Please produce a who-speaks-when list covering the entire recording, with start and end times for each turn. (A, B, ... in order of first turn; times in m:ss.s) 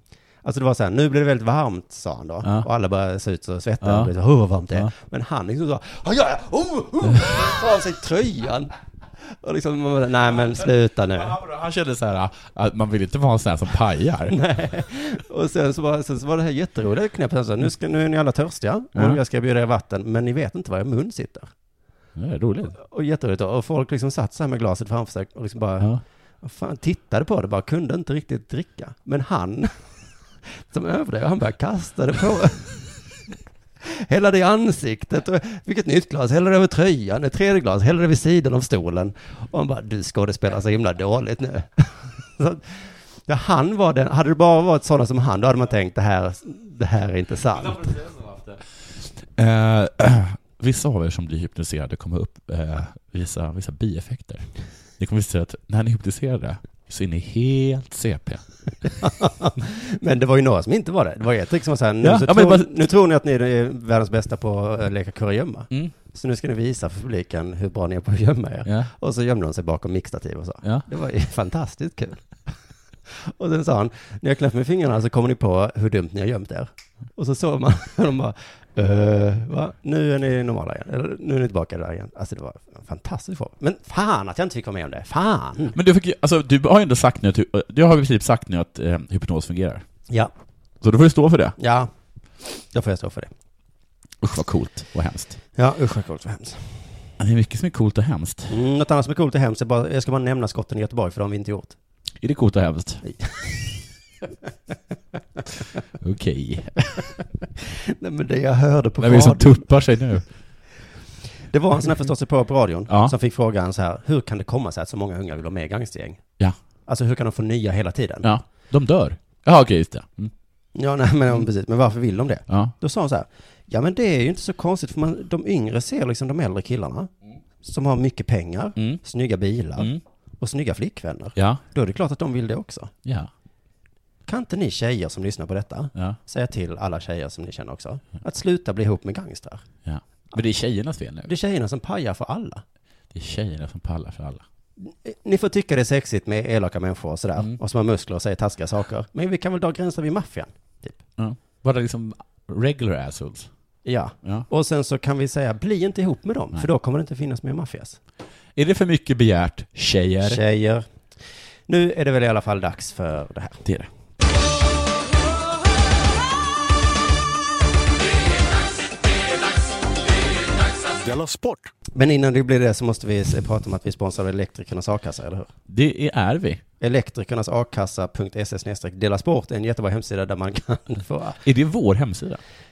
0:00.4-0:08.7 A
0:02.4-0:02.7 B
0:03.8-0:04.1 B
0:07.0-0:07.4 B
0:09.2-0:11.4 A
0:11.2-0:14.4 B
0:14.3-0:21.5 A
0:19.0-0:19.2 B
0:22.2-0:22.8 B
0:22.8-0:29.9 A
0:30.6-0:32.9 A
0:33.9-0:48.0 A
0:48.0-0:48.5 B
0:49.3-0:58.4 B
0:59.0-1:12.5 A
1:02.0-1:02.7 B
1:08.6-1:08.9 B
1:13.1-1:25.8 A
1:25.7-1:29.8 B
1:30.8-1:31.6 B
1:31.6-1:31.9 A
1:32.7-1:33.3 A
1:34.2-1:35.4 B
1:35.6-1:36.8 A
1:37.2-1:38.5 B
1:38.5-1:41.8 A
1:42.2-1:43.0 B
1:43.0-1:43.6 A
1:46.0-1:47.0 B
1:48.0-1:50.0 A
1:49.0-1:50.3 B
1:51.5-1:56.2 A
1:52.9-1:53.1 B
1:56.9-1:58.3 A
1:58.2-2:00.3 B
2:00.8-2:07.1 A
2:02.5-2:02.7 B
2:07.6-2:12.9 A
2:08.8-2:09.0 B
2:09.8-2:10.0 B
2:11.4-2:11.6 B
2:13.0-2:13.3 B
2:14.3-2:19.6 A
2:19.8-2:21.3 B
2:21.2-2:22.6 A
2:23.1-2:24.4 B
2:24.8-2:31.0 A
2:31.2-2:33.5 B
2:33.8-2:38.0 A
2:38.6-2:40.4 B
2:40.2-2:40.9 A
2:41.7-2:43.6 A
2:51.9-2:55.5 A
2:55.7-2:56.6 B
2:56.8-3:01.4 A
3:01.4-3:02.4 B